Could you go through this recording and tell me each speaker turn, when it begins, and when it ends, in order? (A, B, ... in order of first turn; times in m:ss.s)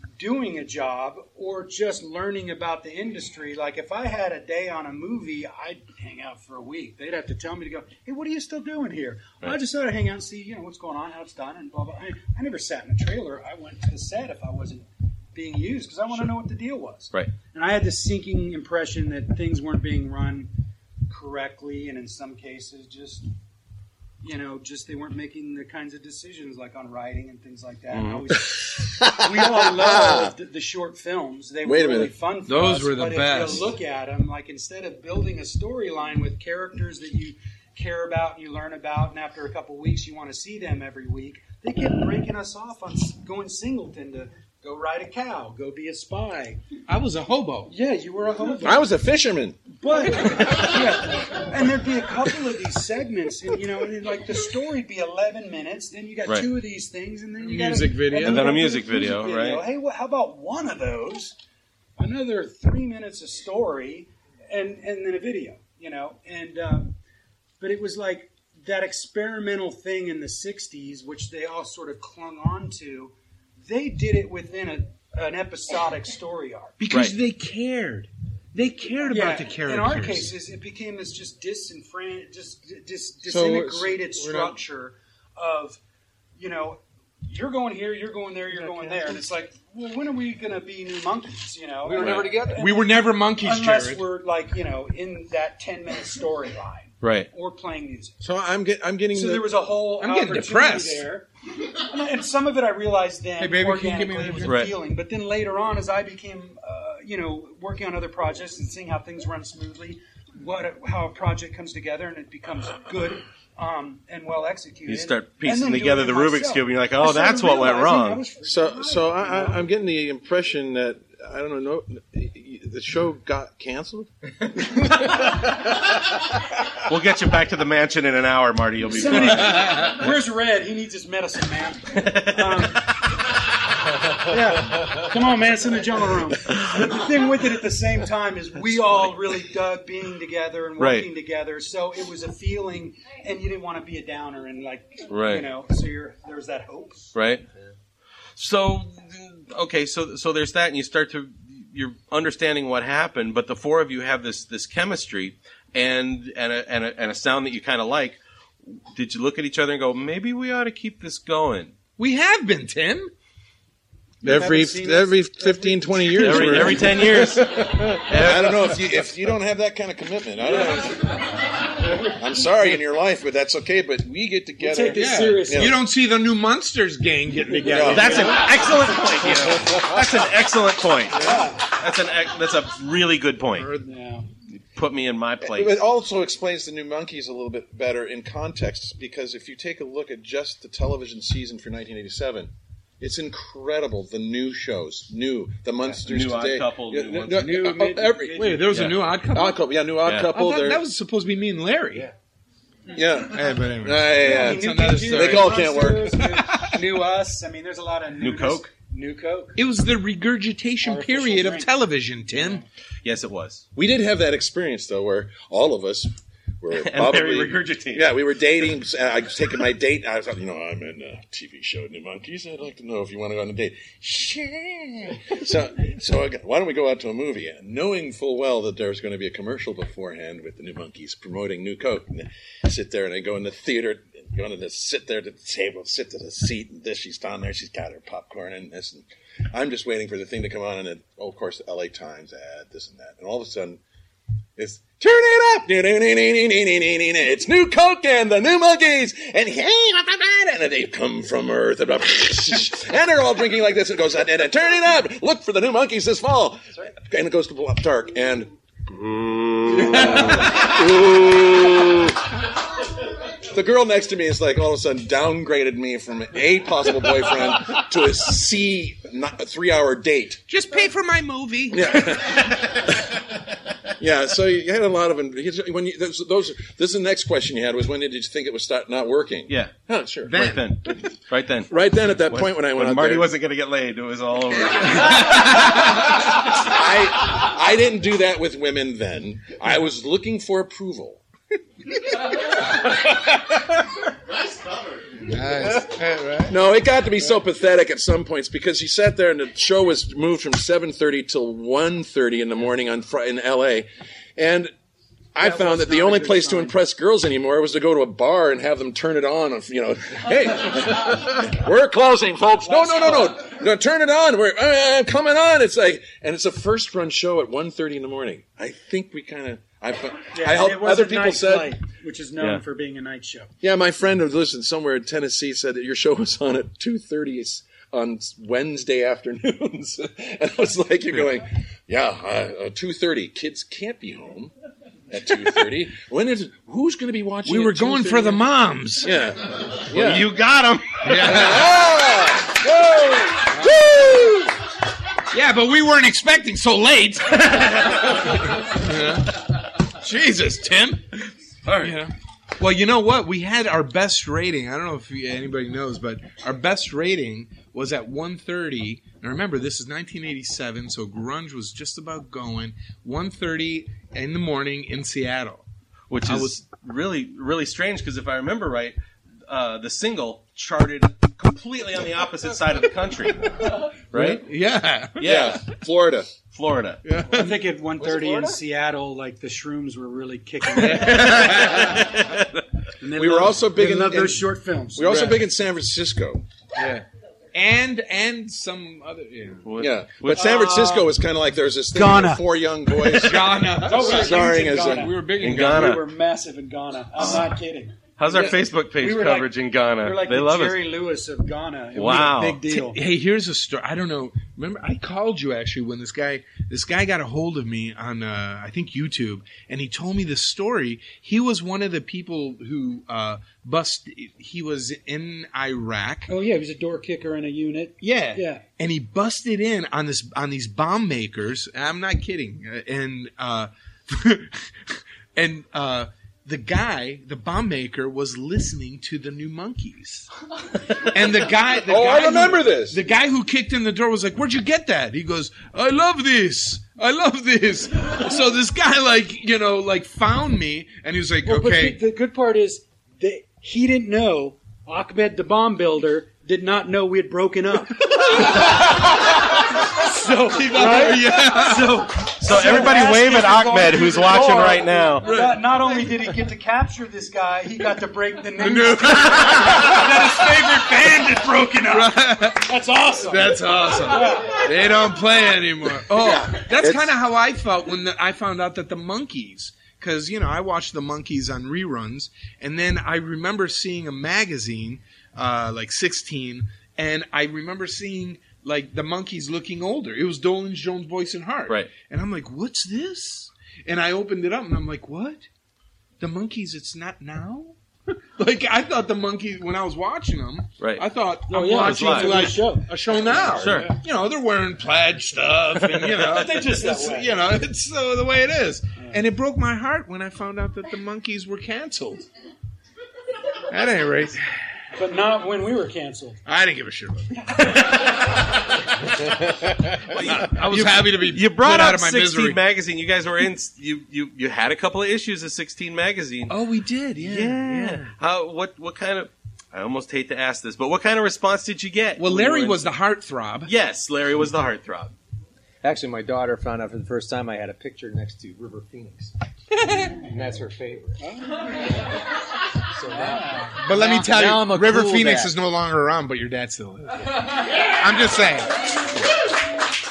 0:00.2-0:20.5 A
0:21.1-0:23.3 A
0:24.2-0:46.6 A
0:27.9-0:28.2 B
0:28.7-0:30.3 C
0:31.6-0:32.1 C
0:32.5-0:33.7 D
0:46.9-0:47.7 D
0:47.7-0:48.9 A
0:48.6-0:49.7 C
0:49.7-1:01.4 A
0:50.4-0:50.7 B
0:57.4-0:58.6 D
0:58.1-0:59.6 B
1:02.0-1:07.0 A
1:07.6-1:16.8 A
1:16.8-1:20.3 D
1:19.1-1:25.8 A
1:23.3-1:24.6 C
1:26.4-1:38.2 A
1:31.8-1:32.7 E
1:32.0-1:32.2 B
1:32.6-1:34.0 D
1:37.0-1:37.3 B
1:38.2-1:39.6 C
1:39.1-1:59.7 A
1:40.0-1:41.0 D
1:43.4-1:44.6 D
1:44.4-1:44.7 B
1:54.9-1:58.2 B
1:58.4-2:04.9 C
2:06.9-2:09.9 B
2:08.8-2:13.0 A
2:11.9-2:12.9 B
2:14.1-2:27.2 A
2:16.6-2:16.8 B
2:20.8-2:21.1 B
2:25.1-2:25.5 B
2:27.2-2:27.4 B
2:28.4-2:41.7 B
2:42.0-2:43.1 D
2:44.2-2:46.9 A
2:44.2-2:51.2 C
2:46.2-2:48.8 B
2:47.2-2:47.8 D
2:51.9-2:55.8 C
2:54.6-2:55.8 A
2:54.9-2:58.4 D
2:57.6-2:58.3 C
2:57.8-3:03.7 B
3:01.1-3:01.7 A
3:03.6-3:03.9 D
3:03.8-3:04.3 A
3:04.7-3:05.8 B
3:05.4-3:18.7 C
3:16.0-3:17.6 B
3:17.3-3:18.8 A
3:18.3-3:19.7 D
3:18.7-3:19.0 B
3:19.2-3:20.8 C
3:20.0-3:20.3 B
3:20.3-3:22.1 D
3:22.9-3:26.4 C
3:23.3-3:25.9 D
3:24.2-3:29.6 A
3:26.4-3:26.7 D
3:28.2-3:28.7 B
3:29.6-3:32.6 D
3:30.8-3:31.7 A
3:32.3-3:32.6 A
3:33.0-3:33.6 B
3:33.8-4:03.8 C
3:36.7-3:38.2 B
4:04.6-4:22.2 C
4:19.7-4:20.7 D
4:23.5-4:30.4 C
4:30.5-4:32.5 D
4:31.7-4:33.2 C
4:34.0-4:40.5 C
4:40.3-4:45.9 B
4:40.3-4:40.8 D
4:41.7-4:43.3 C
4:45.0-4:45.8 D
4:46.4-4:51.2 C
4:52.7-4:53.2 C
4:55.2-4:56.6 D
4:56.5-5:04.7 C
5:05.4-5:21.8 C
5:05.4-5:06.8 A
5:12.6-5:13.4 A
5:20.3-5:23.5 A
5:23.6-5:34.5 C
5:35.1-5:38.4 C
5:37.4-5:39.2 D
5:39.0-5:40.3 C
5:39.9-5:41.4 B
5:41.0-5:41.8 D
5:41.2-5:44.5 C
5:45.3-5:51.1 D
5:47.4-5:48.3 B
5:51.6-5:52.0 B
5:51.8-6:05.6 D
6:06.1-6:14.4 B
6:06.2-6:06.5 D
6:14.1-6:15.3 D
6:15.2-6:15.7 B
6:15.2-6:16.3 C
6:16.5-6:17.0 B
6:17.0-6:17.6 D
6:17.3-6:22.0 A
6:18.1-6:18.5 C
6:20.8-6:22.1 D
6:21.0-6:22.6 B
6:23.0-6:25.4 A
6:23.1-6:26.5 C
6:26.8-6:29.7 D
6:29.6-6:30.7 B
6:29.8-6:35.1 C
6:30.3-6:31.1 A
6:31.9-6:33.2 A
6:33.1-6:36.0 D
6:33.8-6:38.1 A
6:35.3-6:36.1 B
6:38.2-6:40.9 B
6:38.3-6:38.6 C
6:39.0-6:43.0 A
6:41.9-6:42.6 B
6:42.6-6:56.3 D
6:56.3-6:58.6 A
6:58.0-7:10.3 D
7:10.9-7:22.0 D
7:11.7-7:13.0 C
7:21.4-7:29.0 A
7:28.2-7:29.6 D
7:29.8-7:44.6 A
7:30.4-7:32.1 D
7:32.3-7:35.3 B
7:35.2-7:35.9 D
7:38.6-7:40.5 D
7:41.9-8:05.5 D
7:46.1-7:47.1 C
8:06.2-8:22.3 D
8:10.8-8:11.1 B
8:11.5-8:13.0 A
8:11.7-8:12.4 B
8:13.5-8:13.9 B
8:13.6-8:14.0 A
8:15.8-8:16.1 B
8:16.2-8:17.4 A
8:23.7-8:24.4 D
8:25.0-8:26.4 A
8:26.5-8:27.5 D
8:30.1-8:32.6 D
8:30.1-8:36.6 B
8:36.5-8:38.1 D
8:37.2-8:42.9 B
8:42.2-8:43.7 D
8:43.7-8:45.2 B
8:45.8-8:49.3 E
8:50.0-8:51.2 E
8:51.2-8:51.9 A
8:52.9-8:55.5 E
8:53.1-8:53.8 A
8:53.8-8:58.8 D